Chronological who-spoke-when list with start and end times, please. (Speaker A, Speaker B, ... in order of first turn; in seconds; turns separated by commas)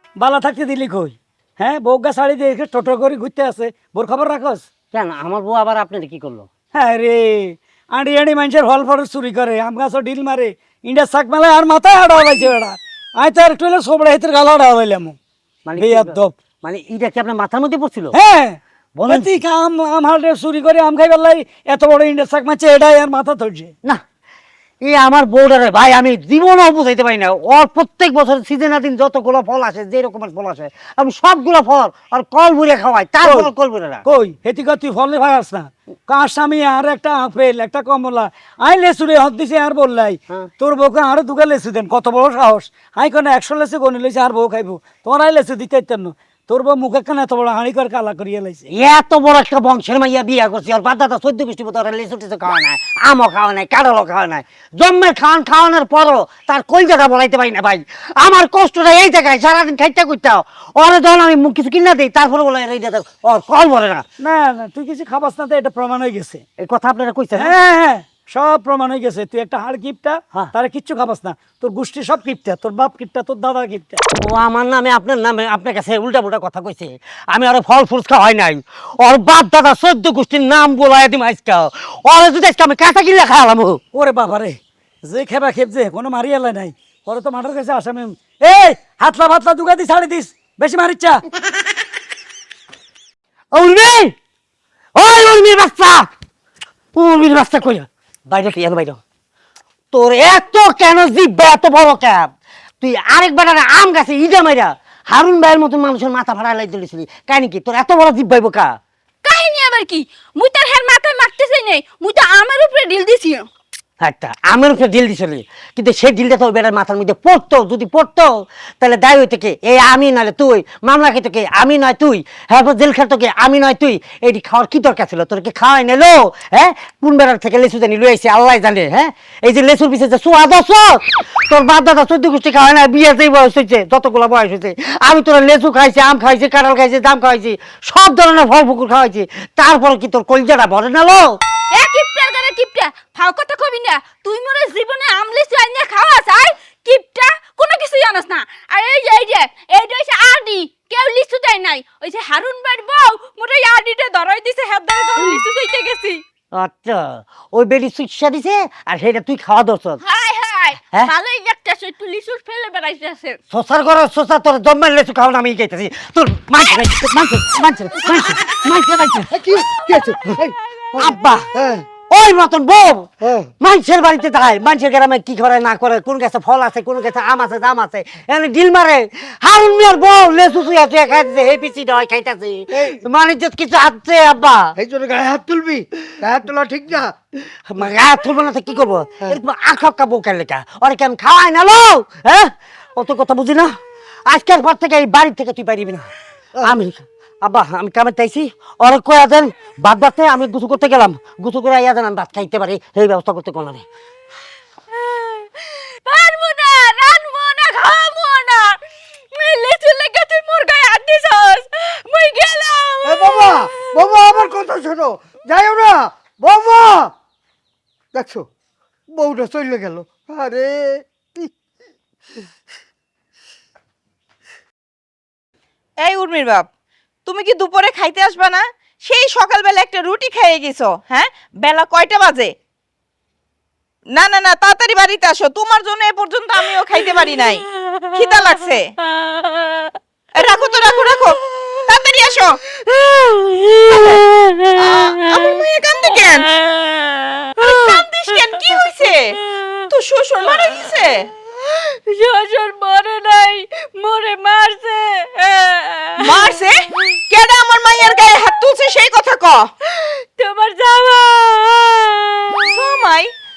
Speaker A: 0.2-4.7, Speaker B: 4.9-6.5, Speaker A: 6.7-15.2, Speaker B: 15.7-18.1, Speaker A: 15.8-16.4, Speaker A: 18.1-23.7, Speaker B: 18.9-19.4, Speaker B: 24.8-34.0, Speaker A: 33.2-33.5, Speaker A: 34.0-48.7, Speaker B: 48.7-64.0, Speaker A: 64.2-66.4, Speaker B: 66.6-67.6, Speaker A: 67.3-74.0, Speaker B: 74.2-83.8, Speaker A: 83.9-91.2, Speaker B: 93.5-94.1, Speaker B: 95.0-96.1, Speaker B: 97.0-99.0, Speaker B: 99.9-102.3, Speaker B: 102.8-108.8, Speaker C: 109.2-113.5, Speaker B: 114.0-141.4, Speaker C: 141.7-156.2, Speaker B: 156.5-160.0, Speaker C: 160.0-163.4, Speaker B: 163.5-169.5, Speaker D: 169.3-171.8, Speaker B: 170.9-184.8, Speaker D: 184.8-187.2, Speaker B: 187.7-193.7, Speaker B: 194.3-196.1, Speaker B: 196.6-203.8, Speaker C: 205.0-205.5, Speaker C: 206.1-208.8, Speaker C: 209.3-214.1, Speaker D: 213.0-217.1, Speaker D: 218.1-218.5, Speaker D: 219.1-221.5, Speaker E: 226.0-226.7, Speaker E: 227.3-232.5, Speaker E: 234.2-238.9, Speaker E: 240.3-242.6, Speaker C: 242.9-245.5, Speaker E: 243.9-244.2, Speaker E: 244.8-246.5, Speaker C: 246.4-248.1, Speaker E: 247.6-249.3, Speaker E: 249.9-251.3, Speaker C: 251.7-256.6, Speaker E: 256.2-256.8, Speaker E: 257.3-259.7, Speaker C: 259.9-262.9, Speaker E: 262.7-263.3